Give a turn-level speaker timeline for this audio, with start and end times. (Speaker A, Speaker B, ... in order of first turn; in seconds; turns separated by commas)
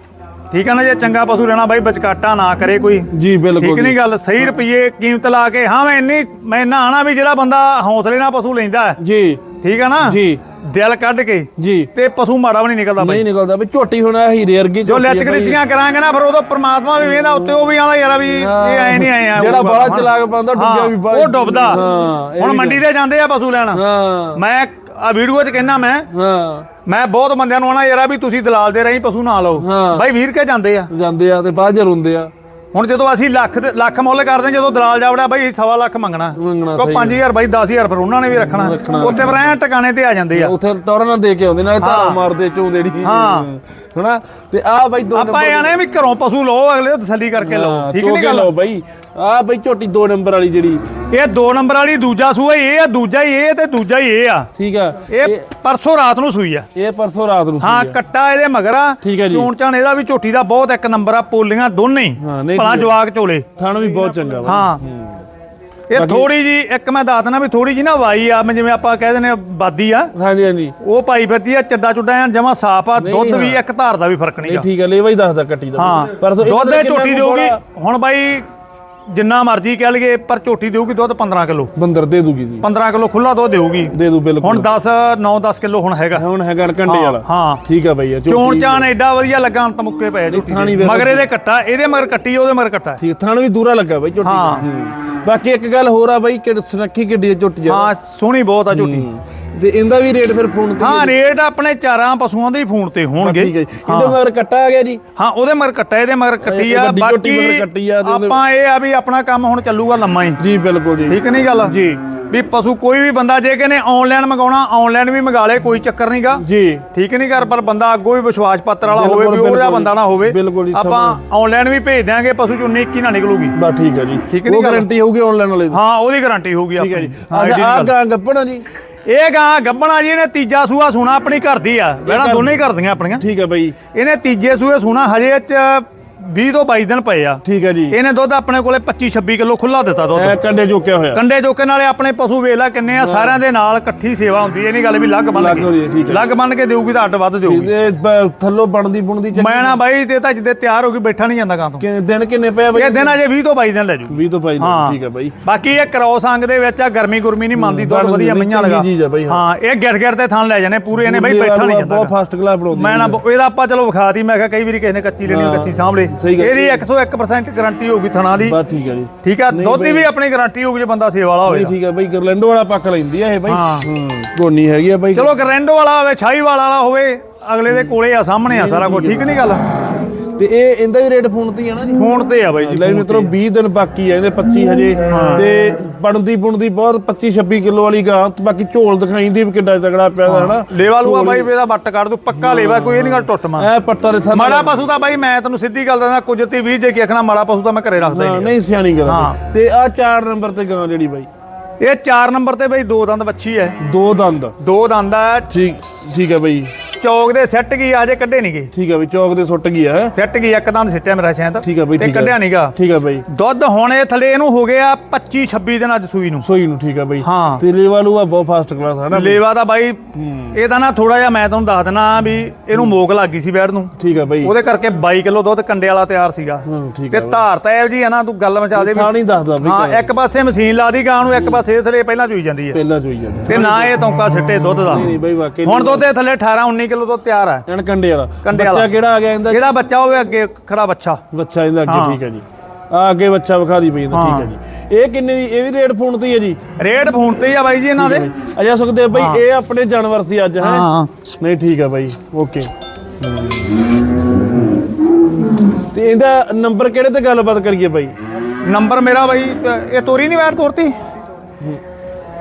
Speaker A: 0.5-9.0, Speaker B: 3.1-4.0, Speaker B: 9.0-9.4, Speaker A: 9.6-13.2, Speaker B: 10.0-10.4, Speaker B: 11.6-11.9, Speaker B: 13.0-15.6, Speaker A: 14.8-21.9, Speaker B: 18.3-22.8, Speaker A: 22.4-23.8, Speaker B: 23.7-24.4, Speaker A: 24.4-26.1, Speaker B: 26.1-26.7, Speaker A: 26.9-30.9, Speaker B: 29.6-30.1, Speaker B: 30.9-32.3, Speaker A: 32.7-40.5, Speaker B: 36.4-37.2, Speaker B: 38.5-39.4, Speaker B: 40.3-45.7, Speaker A: 41.8-42.2, Speaker A: 43.0-43.5, Speaker A: 45.1-48.5, Speaker B: 47.4-50.8, Speaker A: 51.1-54.5, Speaker B: 54.6-55.5, Speaker A: 55.1-56.7, Speaker B: 56.8-58.0, Speaker A: 57.6-63.5, Speaker B: 59.0-59.5, Speaker B: 62.2-63.0, Speaker B: 63.6-65.2, Speaker A: 64.4-64.8, Speaker A: 65.9-70.1, Speaker B: 65.9-66.3, Speaker B: 70.2-70.8, Speaker A: 70.8-74.7, Speaker B: 73.0-73.6, Speaker B: 74.4-77.6, Speaker A: 75.8-78.5, Speaker A: 79.1-81.7, Speaker B: 81.8-82.7, Speaker A: 82.6-86.2, Speaker B: 83.9-84.7, Speaker B: 86.1-88.9, Speaker A: 86.9-87.6, Speaker A: 88.3-93.0, Speaker B: 90.3-91.3, Speaker B: 93.0-97.9, Speaker A: 94.2-94.7, Speaker A: 97.7-99.1, Speaker B: 98.7-101.2, Speaker A: 100.8-104.2, Speaker B: 103.2-105.0, Speaker A: 105.2-110.4, Speaker B: 106.4-108.4, Speaker B: 110.4-112.0, Speaker A: 111.1-111.8, Speaker A: 112.3-116.4, Speaker B: 116.4-116.8, Speaker A: 116.9-123.6, Speaker B: 118.9-121.2, Speaker B: 123.5-125.8, Speaker A: 124.3-124.9, Speaker A: 125.7-128.0, Speaker B: 126.8-128.7, Speaker A: 129.1-133.2, Speaker B: 132.1-132.6, Speaker B: 133.2-133.8, Speaker A: 133.9-140.4, Speaker B: 137.4-138.0, Speaker B: 140.2-141.2, Speaker A: 141.1-147.8, Speaker B: 142.9-143.4, Speaker B: 145.3-146.3, Speaker B: 147.4-149.8, Speaker A: 149.3-151.8, Speaker B: 151.8-153.2, Speaker A: 152.7-162.1, Speaker B: 154.1-155.3, Speaker B: 157.6-159.4, Speaker B: 161.0-163.2, Speaker A: 162.7-168.6, Speaker B: 165.3-166.8, Speaker B: 168.4-170.1, Speaker A: 169.2-171.8, Speaker B: 171.5-175.4, Speaker A: 173.5-173.9, Speaker A: 175.1-179.6, Speaker B: 178.5-179.3, Speaker B: 180.3-191.5, Speaker A: 181.9-183.3, Speaker A: 185.1-185.5, Speaker A: 190.2-193.7, Speaker B: 192.4-194.9, Speaker A: 194.3-199.4, Speaker B: 198.1-201.3, Speaker A: 201.8-203.8, Speaker B: 203.8-204.6, Speaker A: 204.6-205.5, Speaker B: 205.5-206.7, Speaker A: 207.0-208.7, Speaker B: 208.7-210.2, Speaker A: 210.1-212.7, Speaker B: 211.6-213.2, Speaker A: 213.3-216.5, Speaker B: 216.4-219.4, Speaker A: 217.2-217.6, Speaker A: 219.1-220.0, Speaker B: 220.2-220.6, Speaker A: 220.5-232.8, Speaker B: 224.0-224.5, Speaker B: 226.7-227.4, Speaker B: 228.8-230.1, Speaker B: 232.7-234.0, Speaker A: 233.5-235.1, Speaker B: 234.9-236.1, Speaker A: 235.6-237.7, Speaker B: 237.7-239.7, Speaker A: 238.4-238.9, Speaker A: 239.5-241.2, Speaker B: 241.3-246.6, Speaker A: 241.9-242.2, Speaker A: 244.1-244.5, Speaker A: 246.8-248.3, Speaker B: 248.0-250.9, Speaker A: 249.1-249.4, Speaker A: 250.6-251.1, Speaker B: 251.4-252.7, Speaker B: 253.2-253.7, Speaker B: 255.9-258.1, Speaker A: 258.6-260.9